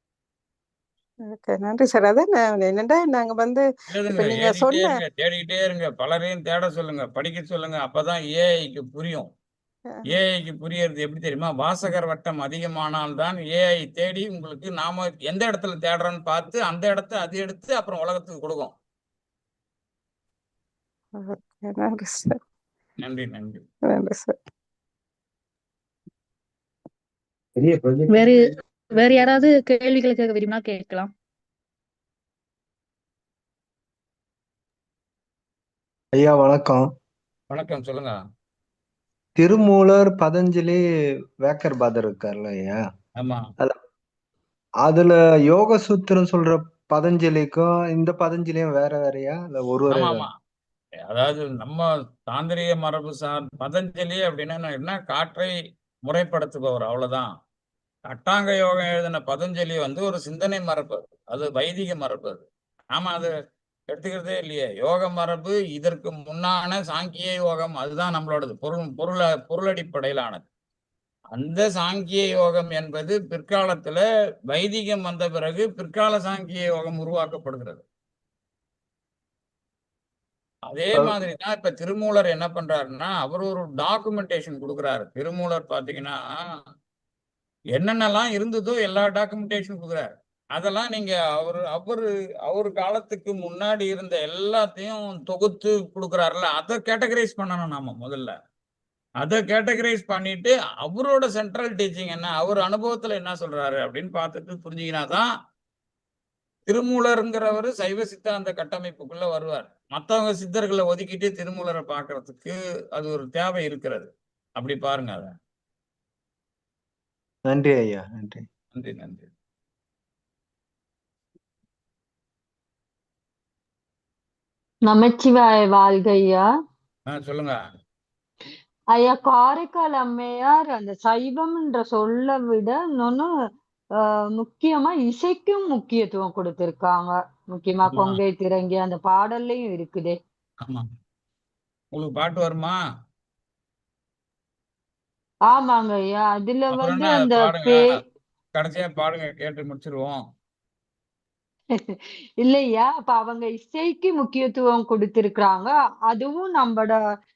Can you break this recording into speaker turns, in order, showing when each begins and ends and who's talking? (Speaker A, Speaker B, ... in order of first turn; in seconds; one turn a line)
Speaker A: 1.3-5.0
Speaker B: 3.9-9.3
Speaker A: 9.9-10.2
Speaker B: 10.1-18.7
Speaker A: 21.2-22.4
Speaker B: 23.0-23.6
Speaker A: 23.9-24.4
Speaker C: 28.1-31.1
Speaker D: 36.1-36.8
Speaker B: 37.5-38.2
Speaker D: 39.4-40.8
Speaker D: 41.4-42.8
Speaker B: 43.2-43.5
Speaker D: 44.8-50.2
Speaker B: 49.9-50.3
Speaker B: 51.1-55.5
Speaker B: 56.1-57.3
Speaker B: 58.1-63.3
Speaker B: 63.9-70.4
Speaker B: 71.3-77.8
Speaker B: 80.7-86.2
Speaker B: 87.8-98.3
Speaker B: 99.2-105.3
Speaker B: 106.7-115.3
Speaker D: 117.5-118.4
Speaker B: 118.7-119.3
Speaker E: 124.8-126.5
Speaker B: 127.1-127.6
Speaker E: 128.9-133.3
Speaker E: 134.0-140.2
Speaker B: 137.9-138.2
Speaker B: 141.9-142.8
Speaker E: 145.5-148.0
Speaker B: 146.7-147.9
Speaker B: 148.5-150.2
Speaker E: 151.7-157.0